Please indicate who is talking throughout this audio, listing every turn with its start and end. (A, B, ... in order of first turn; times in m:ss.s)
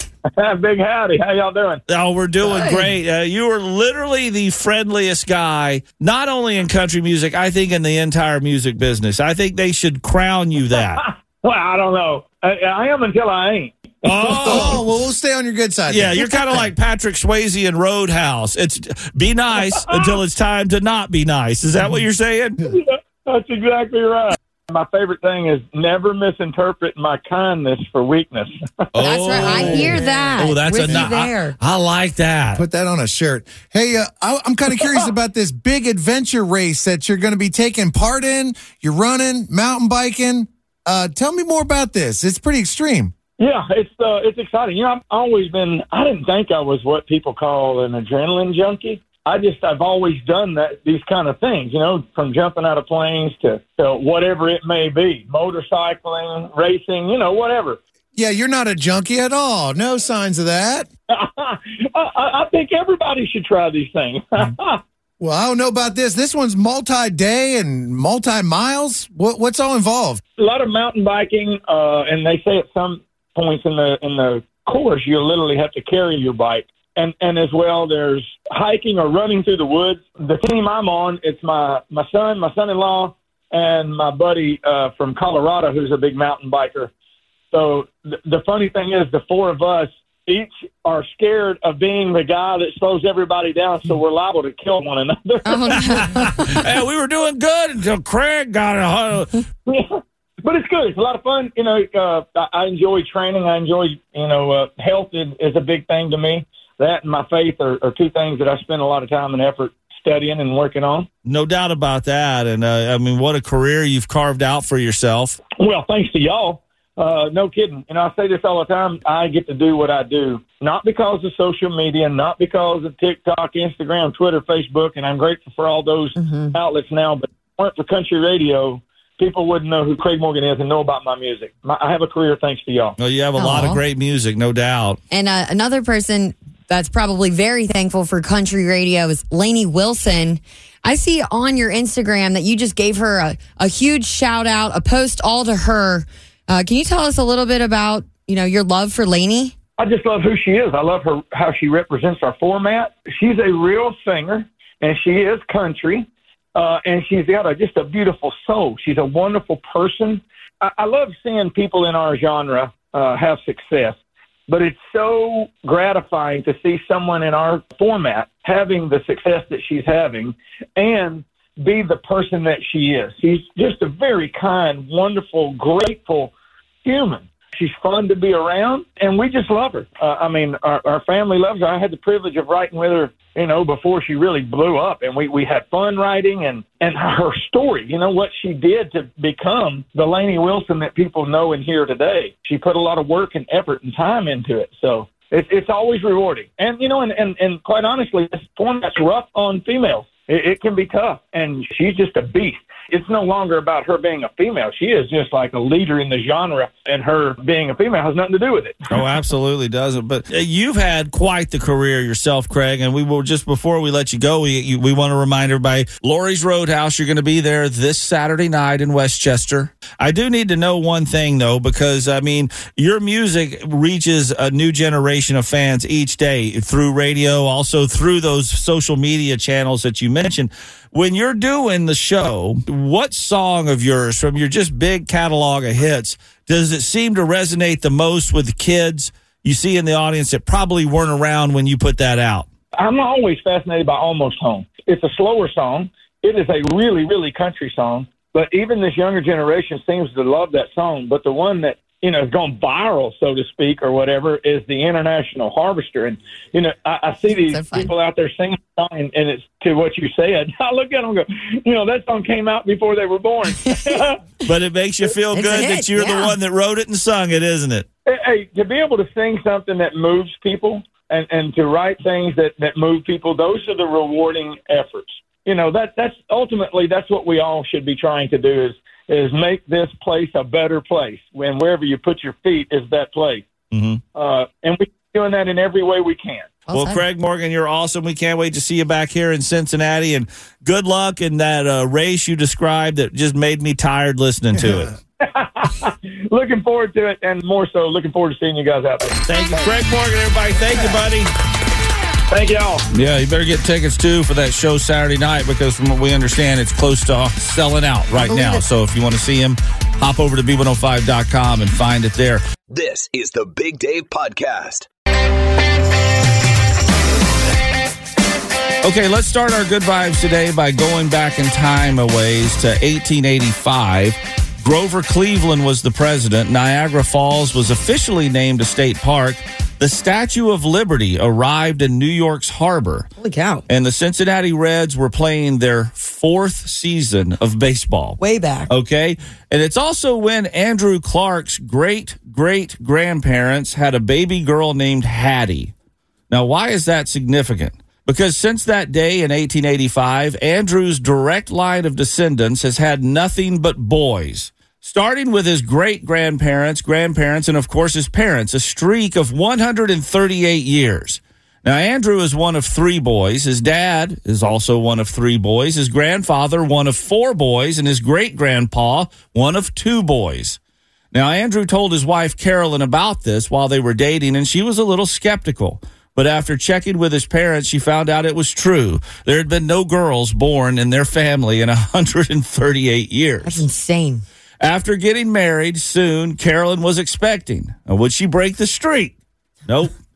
0:00.3-0:01.8 A
0:01.9-0:11.0 B
0:02.4-0:02.9 C
0:10.7-0:14.7 A
0:14.0-0:14.8 B
0:14.4-0:16.7 D
0:15.9-0:22.7 B
0:19.5-0:20.2 A
0:22.7-0:29.8 A
0:28.9-0:32.6 B
0:29.0-0:31.6 C
0:32.5-0:43.1 D
0:43.4-0:57.8 A
0:58.1-1:00.9 D
1:01.1-1:04.8 A
1:05.2-1:10.2 D
1:10.4-1:26.9 A
1:27.5-1:35.8 A
1:35.4-1:36.6 C
1:35.8-1:39.4 B
1:39.7-1:51.1 A
1:51.2-1:55.4 B
1:55.6-2:13.0 A
2:06.2-2:06.6 C
2:13.0-2:15.0 B
2:13.4-2:13.8 C
2:15.1-2:29.5 C
2:29.8-2:44.0 A
2:44.5-2:56.3 A
2:56.8-3:29.0 A
3:28.9-4:02.5 B
4:02.8-4:24.2 A
4:17.3-4:17.9 C
4:23.6-4:24.0 C
4:24.4-4:27.9 B
4:25.3-4:26.4 C
4:28.0-4:43.5 A
4:43.7-4:44.0 B
4:44.1-4:46.6 A
4:46.6-4:47.0 C
4:46.7-4:54.9 B
4:54.6-4:54.8 D
4:55.2-4:59.6 A
4:59.2-5:01.3 B
5:02.3-5:02.8 A
5:02.9-5:12.4 B
5:08.1-5:08.6 C
5:12.7-5:14.9 E
5:18.8-5:33.1 B
5:33.2-5:33.6 C
5:33.7-5:45.7 B
5:38.2-5:38.7 C
5:46.3-6:10.6 B
6:11.1-6:23.6 B
6:23.4-6:24.2 C
6:24.6-6:29.9 B